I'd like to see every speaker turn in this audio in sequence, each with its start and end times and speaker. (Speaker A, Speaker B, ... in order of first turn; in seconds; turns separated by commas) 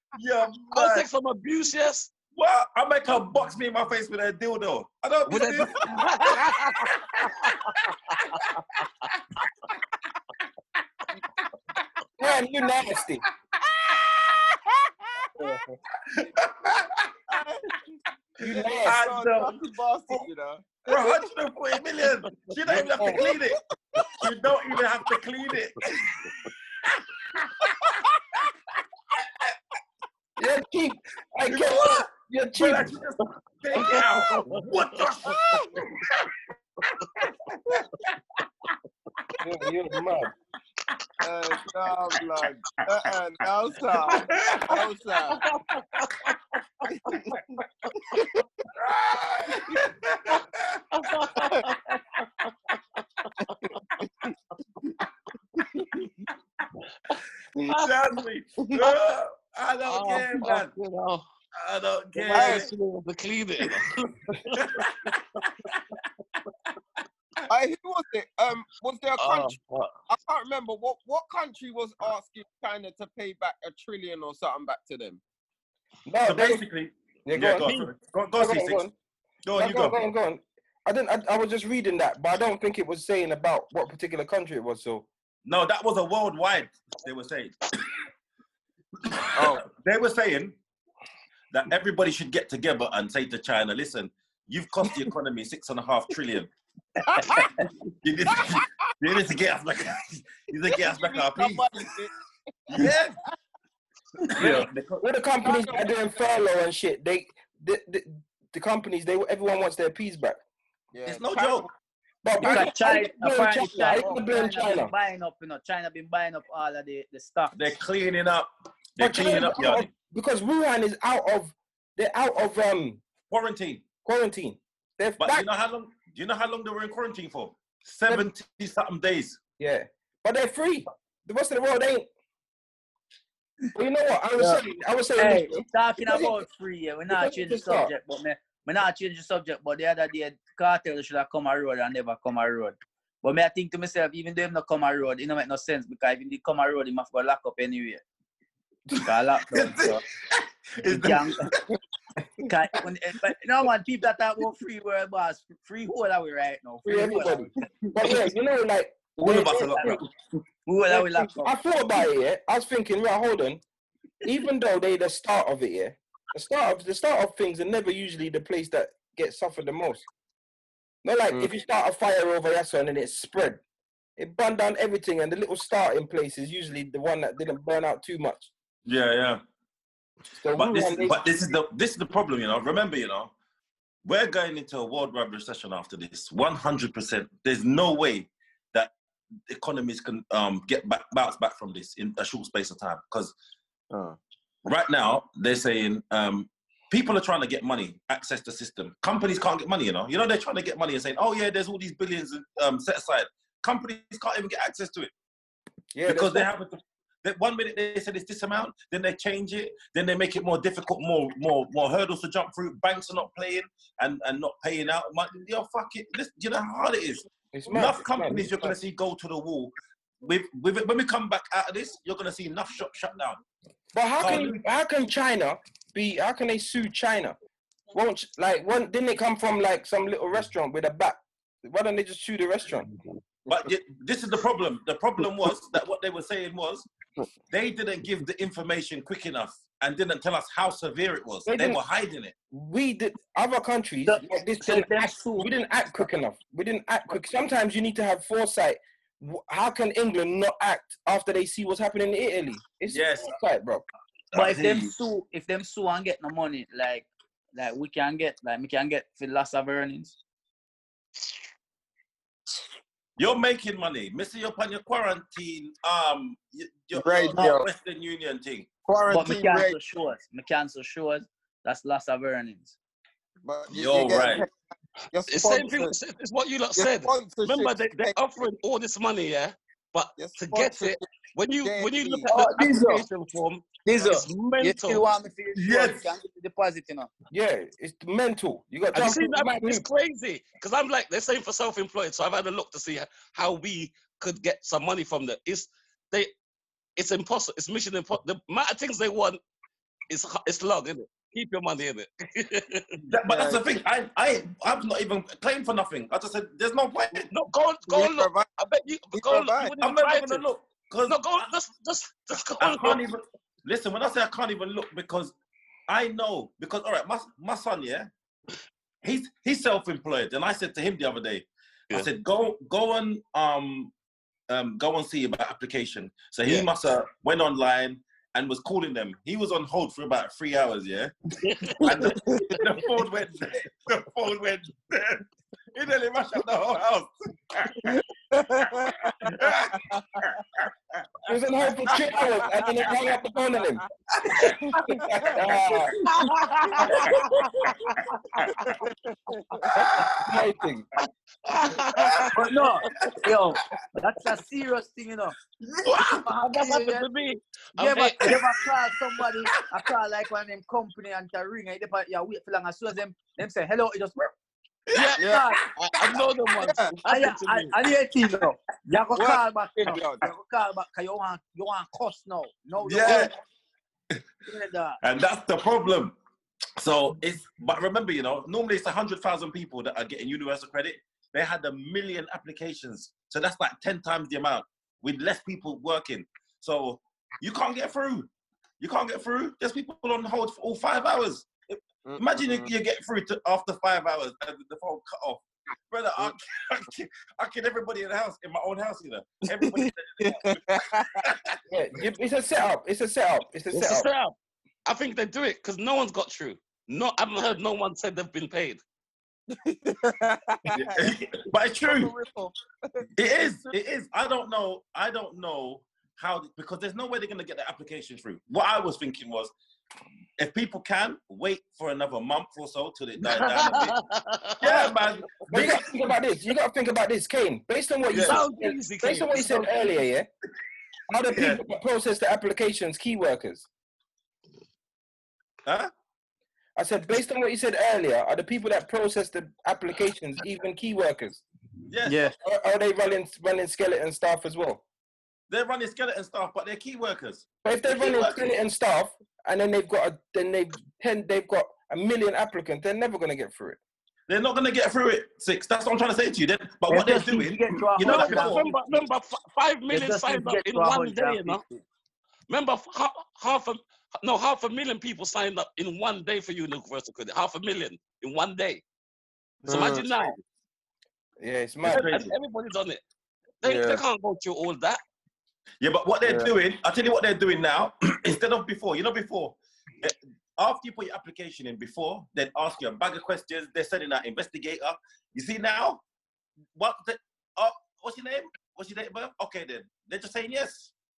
Speaker A: 0.2-1.1, Speaker B: 0.7-2.1, Speaker A: 2.3-7.5, Speaker B: 5.3-8.4, Speaker C: 12.2-13.2, Speaker D: 13.8-15.2, Speaker D: 17.3-17.8, Speaker C: 18.4-19.0, Speaker D: 18.4-21.3, Speaker A: 18.8-19.6, Speaker A: 20.9-23.6, Speaker B: 22.6-23.1, Speaker C: 22.7-23.2, Speaker D: 23.0-24.2, Speaker A: 24.2-26.0, Speaker C: 30.4-32.9, Speaker A: 31.5-35.8, Speaker B: 34.5-34.9, Speaker D: 35.3-35.6, Speaker C: 39.4-40.3, Speaker D: 41.2-45.4, Speaker A: 44.1-44.8, Speaker B: 45.3-46.4, Speaker D: 46.9-47.4, Speaker A: 48.9-50.8, Speaker B: 50.9-52.5, Speaker B: 57.6-57.9, Speaker A: 57.8-60.7, Speaker B: 59.9-61.3, Speaker A: 61.6-62.7, Speaker B: 62.2-65.2, Speaker D: 62.3-62.7, Speaker A: 64.5-65.1, Speaker D: 67.5-69.6, Speaker B: 69.2-69.9, Speaker D: 70.1-75.2, Speaker C: 76.1-76.6, Speaker A: 76.3-78.8, Speaker C: 77.3-77.7, Speaker C: 78.4-78.9, Speaker A: 79.5-80.0, Speaker C: 79.5-85.1, Speaker A: 85.5-87.6, Speaker A: 89.1-90.6, Speaker D: 89.3-89.7, Speaker A: 91.5-96.5, Speaker A: 98.0-101.7, Speaker D: 100.7-102.1, Speaker D: 102.7-102.9, Speaker A: 102.7-103.2, Speaker A: 104.3-105.0, Speaker C: 105.0-110.4, Speaker D: 105.4-106.0, Speaker D: 110.9-111.7, Speaker A: 111.1-111.7, Speaker C: 112.2-114.9, Speaker E: 112.4-117.7, Speaker A: 117.5-119.9, Speaker C: 119.0-123.0, Speaker A: 123.3-123.8, Speaker C: 124.0-125.5, Speaker A: 125.2-129.4, Speaker C: 129.6-132.1, Speaker C: 133.7-136.4, Speaker E: 135.2-148.0, Speaker C: 137.1-137.9, Speaker E: 149.0-150.0, Speaker A: 149.5-150.0, Speaker A: 150.8-151.6, Speaker E: 150.9-151.5, Speaker E: 152.4-157.5, Speaker C: 156.8-160.0, Speaker A: 159.2-160.1, Speaker E: 160.7-161.5, Speaker C: 160.9-163.6, Speaker C: 164.2-170.1, Speaker C: 171.0-173.6, Speaker C: 174.2-178.5, Speaker A: 178.9-179.4, Speaker C: 180.3-181.2, Speaker A: 180.6-183.3, Speaker A: 184.1-188.9, Speaker A: 189.5-193.3, Speaker A: 194.7-205.1, Speaker C: 205.9-206.5, Speaker A: 206.1-223.4, Speaker C: 217.5-218.8, Speaker C: 223.9-227.4, Speaker A: 224.2-224.6, Speaker C: 227.9-232.9, Speaker A: 233.5-236.9, Speaker A: 237.5-242.3, Speaker C: 241.5-241.8, Speaker C: 242.5-253.8, Speaker E: 244.1-245.5, Speaker A: 252.9-253.3, Speaker A: 254.3-254.9, Speaker E: 254.3-260.1, Speaker A: 263.2-268.7, Speaker D: 266.9-267.7, Speaker D: 268.9-269.8, Speaker E: 269.1-272.8, Speaker D: 273.4-274.5, Speaker A: 273.7-274.4, Speaker D: 275.1-275.9, Speaker B: 275.3-285.1, Speaker D: 276.8-278.2, Speaker D: 280.2-281.1, Speaker D: 281.6-282.3, Speaker E: 282.3-283.1, Speaker E: 283.9-287.1, Speaker A: 285.6-286.1, Speaker C: 287.3-289.9, Speaker B: 288.9-296.3, Speaker B: 297.0-299.4, Speaker B: 300.1-303.0, Speaker A: 303.1-307.3, Speaker D: 303.2-303.6, Speaker B: 307.3-310.4, Speaker D: 307.9-308.5, Speaker D: 309.1-309.7, Speaker A: 309.8-311.5, Speaker B: 311.1-313.0, Speaker A: 312.6-315.3, Speaker A: 315.9-318.1, Speaker A: 319.0-323.9, Speaker A: 324.5-331.1, Speaker B: 331.4-332.1, Speaker A: 331.8-335.2, Speaker A: 335.8-338.0, Speaker D: 338.3-339.5, Speaker A: 339.3-339.8, Speaker C: 341.3-343.8, Speaker C: 344.5-346.0, Speaker C: 349.8-350.9, Speaker B: 351.5-352.4, Speaker E: 352.3-355.4, Speaker A: 355.9-356.2, Speaker B: 356.1-358.4, Speaker E: 356.2-357.1, Speaker E: 357.8-364.3, Speaker B: 364.9-367.7, Speaker D: 365.2-365.4, Speaker E: 365.2-365.6, Speaker D: 366.1-366.9, Speaker E: 367.1-373.3, Speaker D: 369.1-370.2, Speaker A: 372.8-373.3, Speaker E: 374.5-375.0, Speaker A: 375.0-376.1, Speaker A: 376.8-388.3, Speaker A: 388.8-400.6, Speaker D: 392.1-392.7, Speaker D: 400.2-401.2, Speaker A: 401.2-401.6, Speaker C: 401.7-404.1, Speaker B: 403.7-404.4, Speaker B: 404.9-408.8, Speaker D: 409.8-411.1, Speaker A: 410.7-412.1, Speaker D: 411.8-412.5, Speaker A: 413.2-419.5, Speaker A: 420.4-424.0, Speaker B: 423.2-425.0, Speaker A: 424.6-425.9, Speaker B: 425.5-425.8, Speaker C: 425.5-430.3, Speaker B: 428.1-429.9, Speaker A: 428.1-428.4, Speaker C: 431.1-433.7, Speaker A: 431.3-431.6, Speaker A: 435.6-435.9, Speaker C: 436.8-441.4, Speaker A: 441.9-442.3, Speaker E: 442.1-442.4, Speaker C: 442.4-444.8, Speaker A: 445.5-448.4, Speaker C: 447.6-453.8, Speaker A: 454.3-458.7, Speaker E: 456.9-458.8, Speaker B: 458.0-461.6, Speaker E: 459.9-461.8, Speaker B: 462.5-468.8, Speaker B: 469.7-470.4, Speaker C: 471.4-472.1, Speaker A: 471.9-472.3, Speaker B: 471.9-473.0, Speaker B: 473.6-475.0, Speaker A: 475.8-486.0, Speaker A: 486.8-490.9